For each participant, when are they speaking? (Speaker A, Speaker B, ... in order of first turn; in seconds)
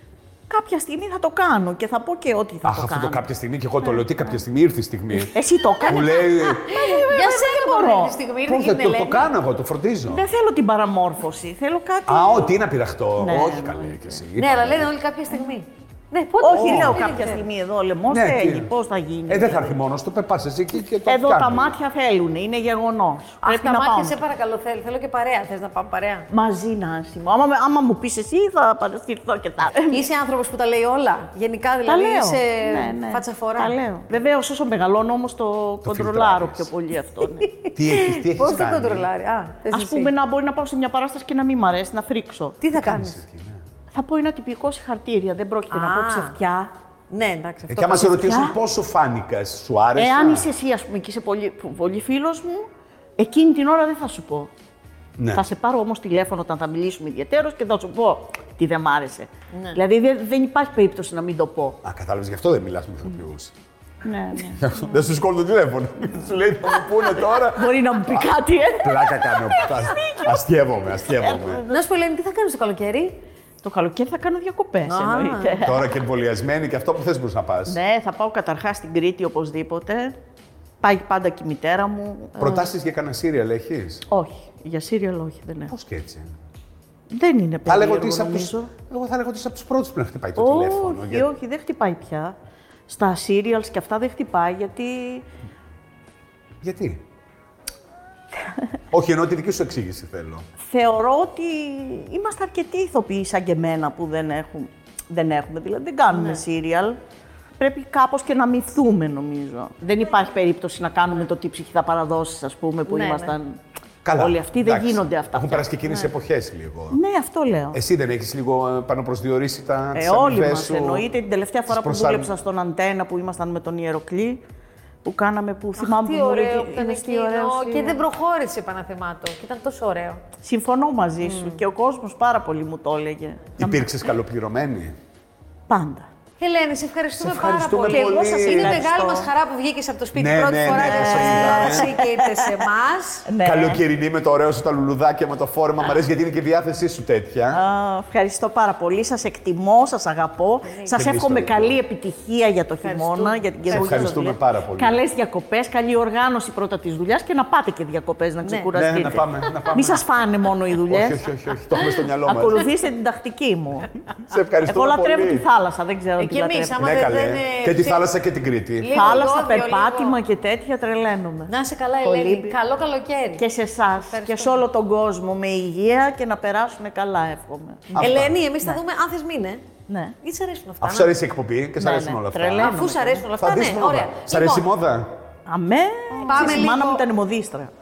Speaker A: 0.5-3.2, 5.1-8.1, 10.1-12.5, 13.2-14.2, 16.4-19.8, 21.0-24.2, 26.3-30.1, 31.9-37.5, 39.7-42.6, 43.9-46.7, 48.0-48.6, 49.9-52.7, 53.2-54.5, 55.3-61.8, 64.0-64.7, 67.1-70.4, 71.0-71.8, 73.6-76.0, 77.7-80.1, 80.8-82.5, 84.1-85.7, 87.1-88.7, 90.3-92.3, 92.9-95.2, 100.6-107.0, 107.6-113.6, 114.2-115.7, 116.9-117.8, 119.9-124.4, 125.0-128.0, 130.4-133.8, 135.7-136.1, 137.9-139.3, 140.7-142.0, 143.2-143.8, 147.5-161.2, 162.2-163.9, 164.7-166.9, 168.9-172.6, 173.4-178.8, 179.9-180.1, 181.8-183.3, 185.5-187.7
Speaker B: 2.6-5.3, 5.8-6.6, 8.4-10.2, 12.1-14.9, 16.5-17.0, 18.1-18.7, 19.3-21.7, 35.8-36.7, 37.7-39.1, 42.7-43.6, 47.7-50.5, 55.2-55.4, 61.8-63.5, 64.5-71.6, 75.6-77.8, 82.4-84.0, 85.7-86.3, 87.7-91.3, 96.6-97.0, 98.9-100.4, 114.0-117.0, 117.7-121.1, 121.7-122.3, 133.6-134.9, 137.2-138.8, 140.1-142.0, 143.4-147.6, 150.9-151.8, 153.7-155.0, 158.7-160.0, 160.9-162.6, 164.2-165.4, 166.8-169.2, 177.9-178.4, 180.8-185.1
Speaker C: 5.8-9.3, 14.4-17.4, 23.4-26.3, 29.9-33.8, 37.4-40.1, 42.6-43.2, 45.7-46.4, 47.1-48.1, 59.5-59.8, 71.7-73.2, 74.8-75.6, 106.1-106.4, 112.9-113.3, 115.8-116.1, 125.8-130.2, 131.2-131.6, 136.4-143.3, 150.7-151.0, 152.8-154.2, 158.4-158.7, 159.2-160.0, 161.7-162.0, 166.2-168.0, 168.8-170.2, 171.5-174.6, 178.0-179.6, 180.2-181.1, 182.6-184.7, 186.2-187.1